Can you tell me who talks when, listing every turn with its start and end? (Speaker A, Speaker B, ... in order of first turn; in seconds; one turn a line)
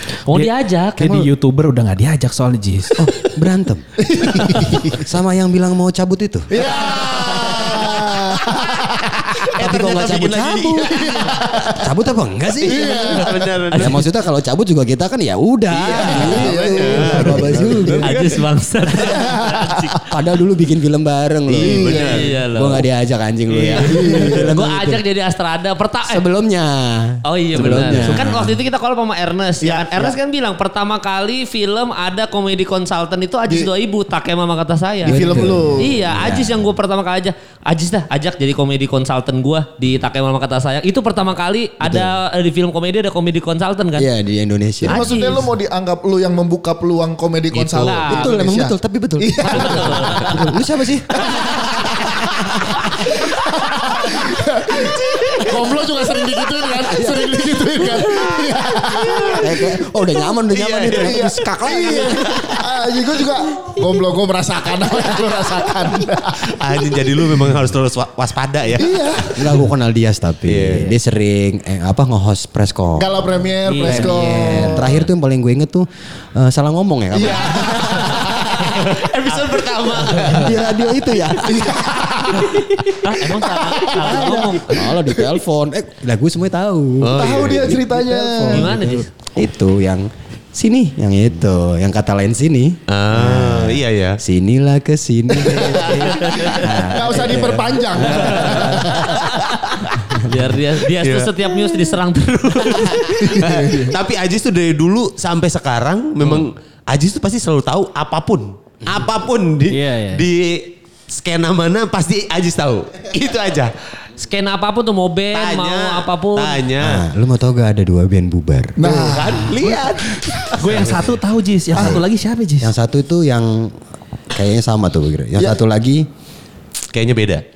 Speaker A: 0.3-1.2
Speaker B: 0.3-3.1
Speaker C: 1.0-1.3
Speaker C: 3.0-6.7
Speaker D: 4.0-4.9
Speaker D: 6.5-9.5
Speaker C: 7.5-8.0
Speaker E: 9.5-11.5
Speaker C: 9.6-10.9
Speaker D: 10.9-11.8
Speaker C: 11.8-18.1
Speaker E: 12.6-14.0
Speaker D: 12.6-13.7
Speaker A: 13.7-14.1
Speaker E: 15.7-18.4
Speaker D: 15.9-17.9
Speaker A: 18.0-20.0
Speaker D: 18.9-19.9
Speaker C: 20.1-25.0
Speaker D: 21.6-22.3
Speaker E: 21.6-22.4
Speaker A: 21.8-22.9
Speaker E: 23.5-24.1
Speaker D: 23.8-24.5
Speaker A: 24.0-26.2
Speaker C: 26.1-28.3
Speaker A: 27.2-44.1
Speaker E: 27.7-28.5
Speaker D: 29.6-30.2
Speaker C: 35.0-36.6
Speaker D: 35.1-36.0
Speaker C: 41.8-42.1
Speaker C: 44.0-45.1
Speaker D: 44.8-50.5
Speaker A: 44.8-45.5
Speaker E: 47.5-48.1
Speaker A: 47.8-48.3
Speaker C: 48.1-53.2
Speaker A: 49.5-50.3
Speaker D: 51.2-52.0
Speaker D: 52.8-59.9
Speaker C: 56.7-58.5
Speaker C: 59.3-62.4
Speaker E: 60.5-61.3
Speaker D: 60.9-67.3
Speaker E: 62.1-62.5
Speaker E: 66.5-69.1
Speaker D: 68.8-69.6
Speaker C: 69.3-73.2
Speaker E: 70.5-70.9
Speaker D: 73.0-75.0
Speaker B: 73.7-74.8
Speaker C: 73.8-78.9
Speaker D: 77.1-78.9
Speaker E: 78.6-80.6
Speaker C: 80.3-82.5
Speaker D: 81.3-85.4
Speaker A: 83.0-84.9
Speaker C: 83.9-99.0
Speaker E: 87.0-87.7
Speaker D: 87.1-88.8
Speaker A: 88.5-89.1
Speaker E: 92.9-94.2
Speaker D: 95.3-99.2
Speaker A: 96.2-96.7
Speaker E: 98.2-99.2
Speaker C: 100.1-100.5
Speaker A: 100.2-103.5
Speaker E: 100.9-101.8
Speaker E: 103.2-113.7
Speaker D: 103.2-104.0
Speaker B: 109.7-110.3
Speaker A: 114.2-116.7
Speaker E: 115.3-117.0
Speaker C: 116.8-119.5
Speaker D: 118.8-120.5
Speaker E: 118.9-120.9
Speaker B: 120.6-122.7
Speaker C: 121.7-122.1
Speaker C: 122.6-123.8
Speaker C: 124.3-126.1
Speaker E: 126.9-127.4